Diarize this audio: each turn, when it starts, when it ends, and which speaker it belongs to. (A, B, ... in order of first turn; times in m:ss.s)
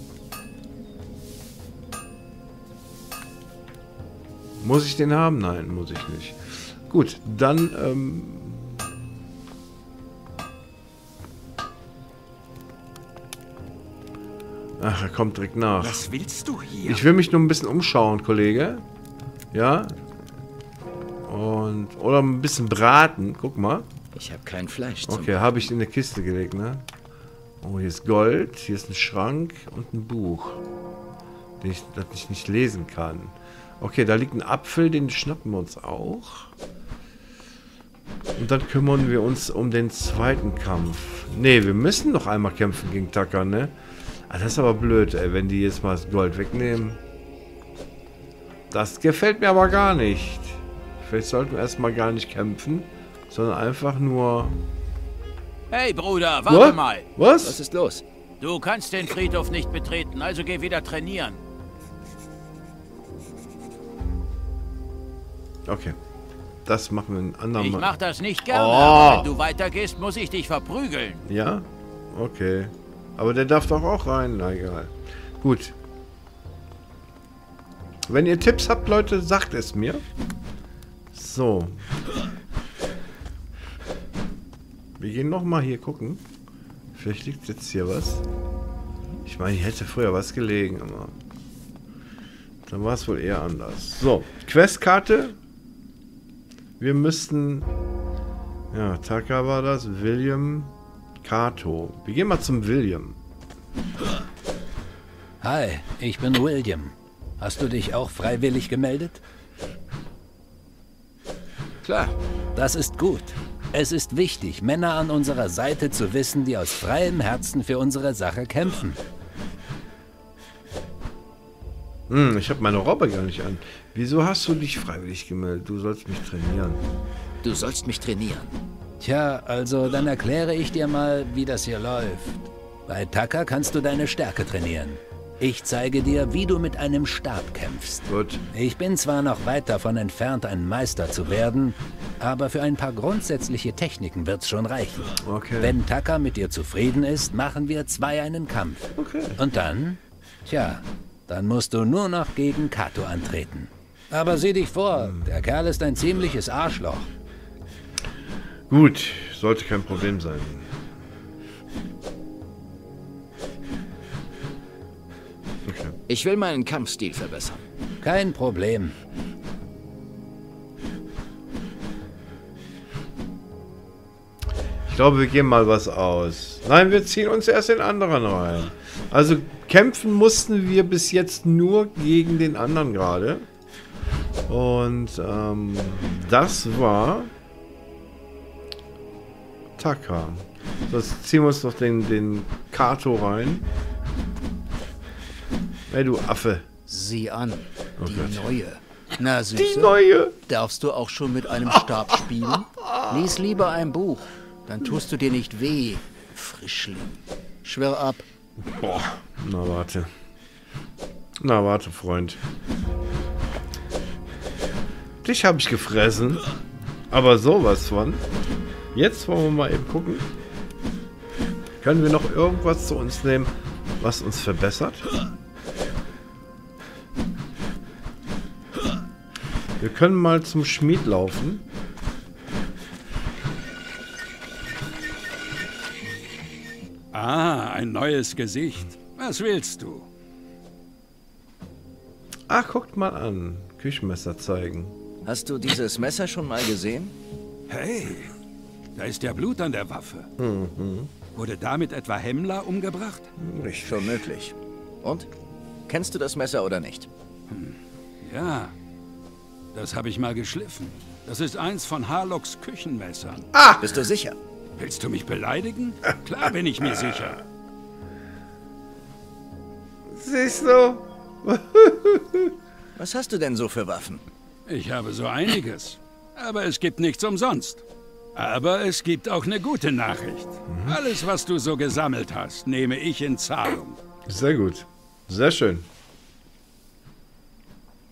0:04.6-0:09.0 A
0:14.8-0:16.1 A
0:15.8-0:17.0 B
0:16.8-0:18.8 A
0:19.5-0:20.0 A
0:21.3-0:23.9 A
0:24.1-0:25.3 C
0:25.0-0:26.9 A
0:27.6-0:30.6 A
0:31.6-0:36.5 A
0:38.4-0:43.8 A
0:44.3-0:47.0 A
0:48.7-0:54.6 A
0:55.7-0:57.0 D
0:56.5-0:57.6 A
0:57.4-0:58.0 C
0:58.4-1:01.4 D
1:05.7-1:06.0 A
1:06.7-1:07.9 A
1:07.6-1:11.2 D
1:08.5-1:09.3 A
1:11.3-1:15.8 A
1:18.1-1:20.0 A
1:21.1-1:21.9 A
1:25.0-1:26.2 A
1:27.0-1:28.2 A
1:29.2-1:31.2 A
1:32.7-1:35.4 A
1:36.8-1:37.7 A
1:38.7-1:43.2 A
1:45.4-1:49.2 E
1:51.8-1:52.2 C
1:52.6-1:59.0 E
2:02.1-2:06.8 A
2:07.4-2:08.5 C
2:09.0-2:37.1 E
2:18.1-2:18.4 A
2:25.2-2:25.8 A
2:29.0-2:29.4 A
2:35.0-2:35.3 A
2:38.7-2:40.7 A
2:45.6-2:46.0 A
2:46.1-2:47.6 C
2:48.0-2:49.0 E
2:54.9-3:03.5 A
3:04.5-3:07.3 A
3:09.8-3:13.7 A
3:15.9-3:16.7 A
3:16.9-3:28.2 F
3:18.0-3:18.5 A
3:19.6-3:20.4 A
3:28.7-3:30.1 A
3:31.4-3:32.4 A
3:35.2-3:36.4 A
3:37.1-3:38.3 A
3:38.9-3:40.3 A
3:41.8-3:45.1 A
3:49.8-3:51.7 A
3:57.1-4:00.1 B
4:02.5-4:05.0 A
4:05.2-4:07.2 C
4:07.7-4:08.4 B
4:09.0-4:10.3 B
4:10.4-4:11.1 A
4:11.3-4:13.3 B
4:13.4-4:14.3 A
4:13.8-4:15.3 C
4:15.9-4:17.1 C
4:17.5-4:18.7 B
4:19.7-4:23.6 B
4:23.5-4:24.0 A
4:23.8-4:24.4 C
4:24.8-4:27.4 B
4:30.1-4:32.6 A
4:33.0-4:34.2 C
4:34.7-4:37.8 B
4:38.4-4:44.0 B
4:40.7-4:41.0 A
4:44.3-4:45.9 A